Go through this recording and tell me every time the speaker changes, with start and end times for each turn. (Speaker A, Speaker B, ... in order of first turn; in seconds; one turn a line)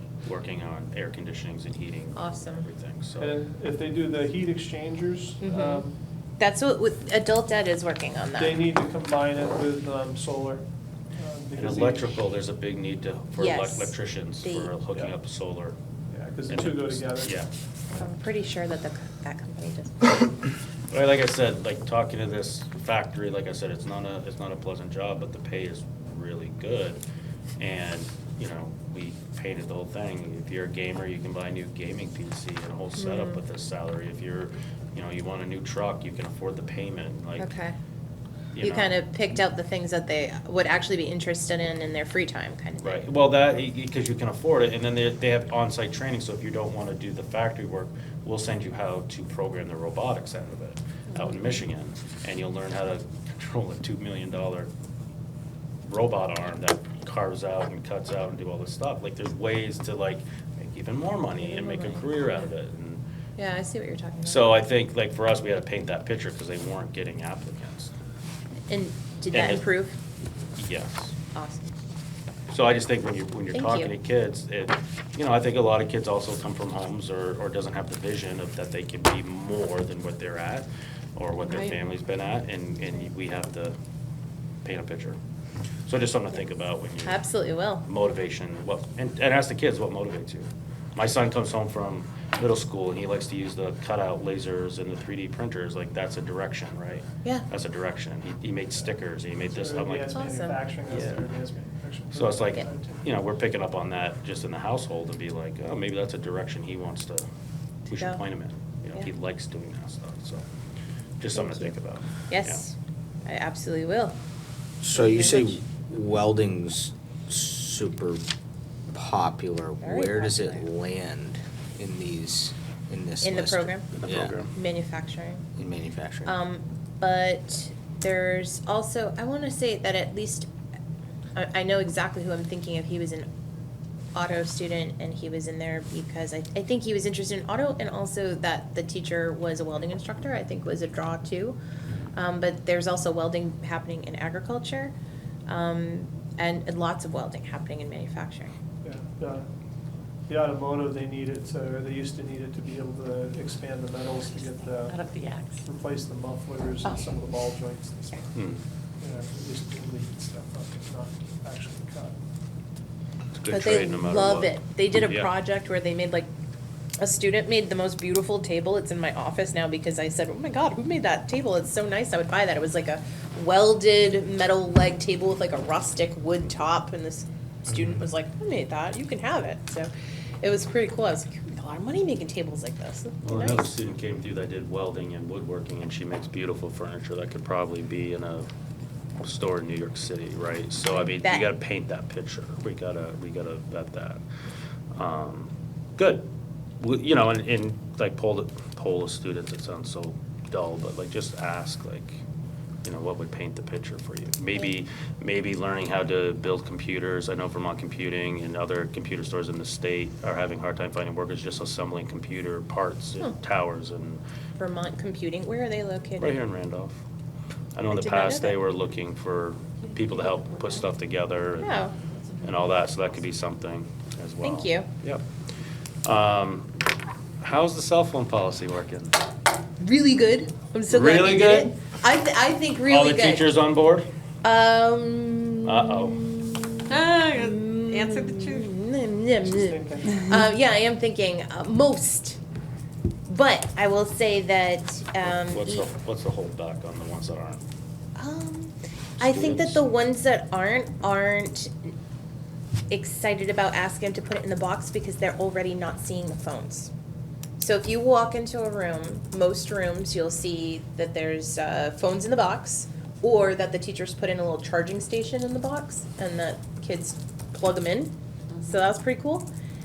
Speaker A: 0.2-3.3
Speaker B: 2.1-2.6
Speaker C: 3.2-6.0
Speaker B: 5.4-5.8
Speaker B: 6.4-8.6
Speaker C: 8.4-10.6
Speaker C: 11.2-12.2
Speaker A: 11.6-15.8
Speaker B: 13.3-14.7
Speaker C: 16.1-17.3
Speaker A: 16.5-17.5
Speaker B: 17.9-20.1
Speaker A: 20.9-27.0
Speaker A: 27.6-37.5
Speaker B: 33.0-33.4
Speaker B: 37.4-37.7
Speaker A: 38.5-38.9
Speaker B: 38.6-43.0
Speaker A: 42.8-54.7
Speaker A: 55.8-63.0
Speaker B: 61.4-62.4
Speaker B: 63.4-64.5
Speaker A: 64.2-67.9
Speaker B: 68.7-70.0
Speaker A: 69.3-69.7
Speaker A: 70.6-71.1
Speaker B: 71.3-71.7
Speaker A: 72.5-83.7
Speaker B: 73.5-73.9
Speaker A: 84.6-85.2
Speaker A: 85.8-87.2
Speaker B: 87.0-87.8
Speaker A: 87.8-100.2
Speaker C: 99.5-103.0
Speaker B: 100.1-100.6
Speaker A: 100.9-101.2
Speaker A: 102.1-107.2
Speaker A: 107.9-110.4
Speaker B: 107.9-108.2
Speaker A: 111.2-112.6
Speaker B: 111.4-111.7
Speaker B: 112.3-114.2
Speaker D: 114.8-118.2
Speaker B: 114.9-115.6
Speaker D: 118.9-124.3
Speaker B: 119.8-120.7
Speaker B: 123.2-123.9
Speaker A: 123.9-124.5
Speaker B: 124.5-125.4
Speaker D: 125.6-126.3
Speaker B: 126.2-130.5
Speaker B: 131.3-133.3
Speaker B: 134.1-141.6
Speaker B: 142.1-144.9
Speaker B: 145.5-148.5
Speaker C: 148.8-149.4
Speaker C: 150.3-155.0
Speaker E: 154.9-155.6
Speaker C: 155.6-158.4
Speaker A: 158.3-158.6
Speaker C: 159.0-162.2
Speaker A: 163.3-165.3
Speaker B: 163.5-166.3
Speaker B: 167.0-179.9
Speaker B: 180.4-183.7
Speaker A: 183.2-188.5
Speaker A: 189.2-194.2
Speaker B: 190.9-191.5
Speaker A: 194.9-196.3
Speaker A: 196.8-202.2
Speaker A: 202.8-214.2
Speaker B: 214.6-216.4
Speaker A: 216.2-217.0
Speaker A: 217.7-221.8
Speaker B: 217.9-218.6
Speaker E: 219.8-220.8
Speaker B: 221.6-221.9
Speaker E: 221.9-223.1
Speaker A: 222.4-225.2
Speaker B: 224.4-224.9
Speaker A: 226.0-226.7
Speaker A: 227.4-229.2
Speaker B: 229.8-233.5
Speaker A: 230.9-231.8
Speaker A: 232.9-234.1
Speaker B: 234.4-242.4
Speaker A: 235.6-236.3
Speaker E: 236.9-238.7
Speaker C: 239.4-240.3
Speaker B: 243.3-245.9
Speaker A: 245.2-247.6
Speaker B: 248.2-251.9
Speaker A: 249.2-249.8
Speaker B: 252.9-256.9
Speaker B: 257.6-269.5